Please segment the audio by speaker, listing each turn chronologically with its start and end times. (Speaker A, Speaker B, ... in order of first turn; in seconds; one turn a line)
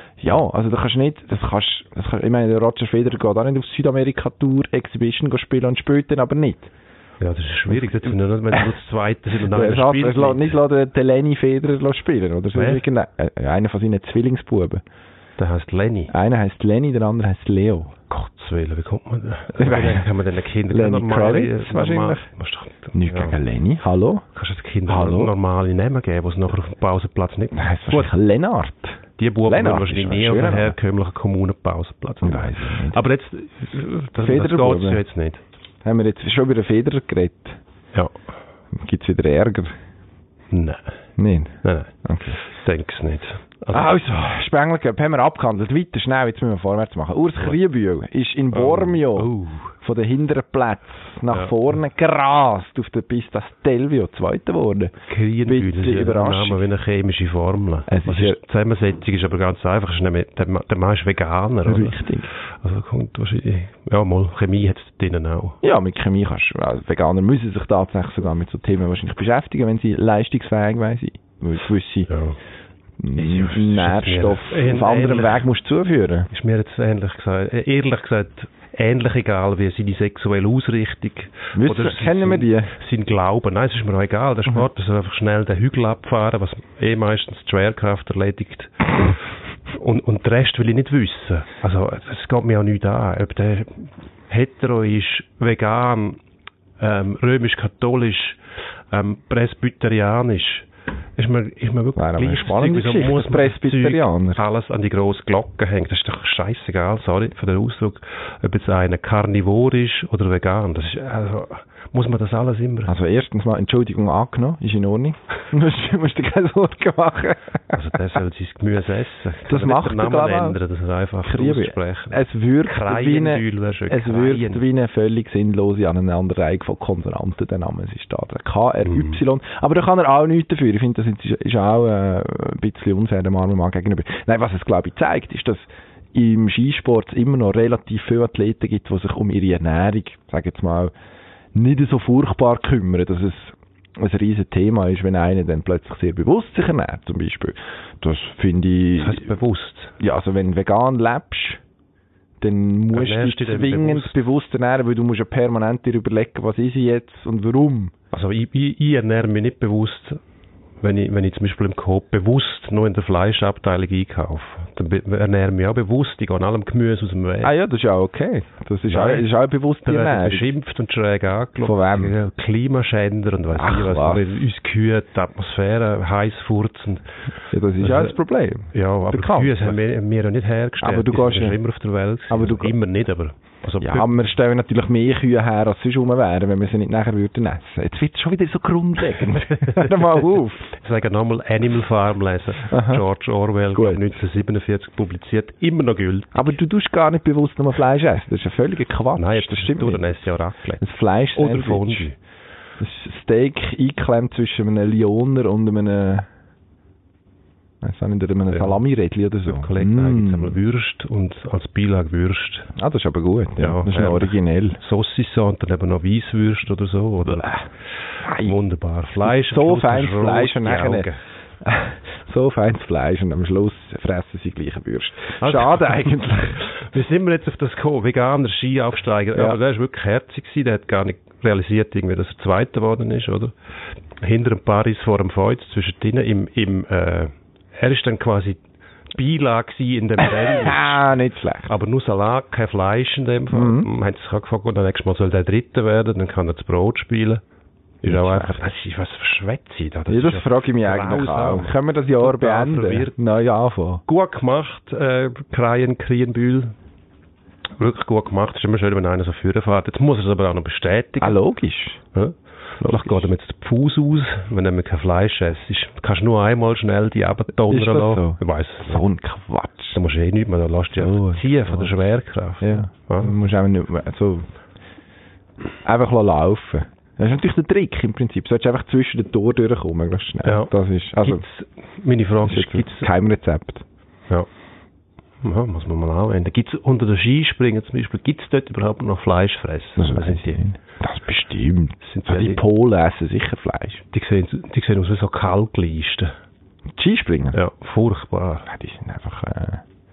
Speaker A: 0.2-6.7
Speaker B: 7.2-10.6
Speaker A: 9.4-14.8
Speaker B: 12.5-12.8
Speaker B: 15.4-16.1
Speaker A: 16.1-18.0
Speaker B: 18.1-23.4
Speaker A: 19.5-20.1
Speaker A: 20.7-22.3
Speaker A: 22.9-24.2
Speaker B: 24.3-28.1
Speaker A: 24.9-25.3
Speaker A: 27.5-30.8
Speaker B: 29.2-35.4
Speaker A: 32.2-33.0
Speaker A: 34.2-35.0
Speaker A: 35.8-37.6
Speaker A: 38.7-39.7
Speaker B: 40.5-41.0
Speaker A: 41.2-42.4
Speaker B: 41.6-43.9
Speaker A: 43.7-54.9
Speaker B: 48.5-49.7
Speaker B: 51.3-51.6
Speaker B: 55.1-65.6
Speaker A: 55.4-56.7
Speaker A: 57.9-58.4
Speaker A: 61.6-62.3
Speaker A: 65.6-72.1
Speaker B: 72.1-72.4
Speaker A: 73.0-76.3
Speaker B: 73.2-75.5
Speaker B: 76.3-96.2
Speaker A: 81.5-82.7
Speaker B: 96.8-98.4
Speaker B: 98.9-113.0
Speaker A: 102.0-104.4
Speaker A: 112.9-117.8
Speaker B: 117.7-124.6
Speaker A: 119.5-120.6
Speaker A: 121.2-140.9
Speaker B: 128.8-129.2
Speaker A: 141.5-149.3
Speaker B: 149.0-150.0
Speaker A: 150.0-151.6
Speaker A: 152.4-157.9
Speaker B: 152.9-154.2
Speaker B: 158.1-160.2
Speaker B: 160.8-167.5
Speaker A: 167.4-170.5
Speaker B: 168.9-169.3
Speaker B: 169.8-177.1
Speaker A: 171.6-172.1
Speaker A: 173.5-174.2
Speaker A: 177.5-179.8
Speaker B: 177.8-178.1
Speaker B: 178.7-184.2
Speaker A: 180.8-181.6
Speaker A: 182.3-182.7
Speaker A: 183.8-190.7
Speaker B: 189.2-196.5
Speaker A: 192.6-193.0
Speaker A: 193.7-194.0
Speaker A: 196.3-202.1
Speaker B: 199.2-200.8
Speaker B: 201.3-202.2
Speaker A: 202.8-206.3
Speaker A: 207.8-210.6
Speaker B: 208.5-208.8
Speaker B: 209.4-212.7
Speaker A: 212.7-214.8
Speaker B: 213.6-221.2
Speaker A: 217.2-217.6
Speaker A: 218.2-218.6
Speaker A: 219.2-221.1
Speaker A: 221.6-226.6
Speaker B: 225.4-233.5
Speaker B: 234.2-241.1
Speaker A: 240.2-241.7
Speaker B: 241.7-247.4
Speaker A: 243.5-243.9
Speaker B: 248.0-253.2
Speaker A: 248.0-248.6
Speaker A: 250.1-254.0
Speaker B: 254.1-256.7
Speaker B: 257.8-261.4
Speaker A: 261.2-262.0
Speaker B: 262.1-269.0
Speaker A: 262.8-263.3
Speaker A: 267.7-270.0
Speaker B: 269.9-273.3
Speaker A: 271.0-271.9
Speaker A: 272.6-274.5
Speaker A: 275.8-281.4
Speaker B: 280.4-283.1
Speaker A: 282.4-283.8
Speaker B: 285.4-290.6
Speaker A: 290.0-294.0
Speaker B: 292.0-292.6
Speaker B: 294.1-296.4
Speaker A: 296.9-297.6
Speaker B: 297.5-298.7
Speaker A: 298.7-299.8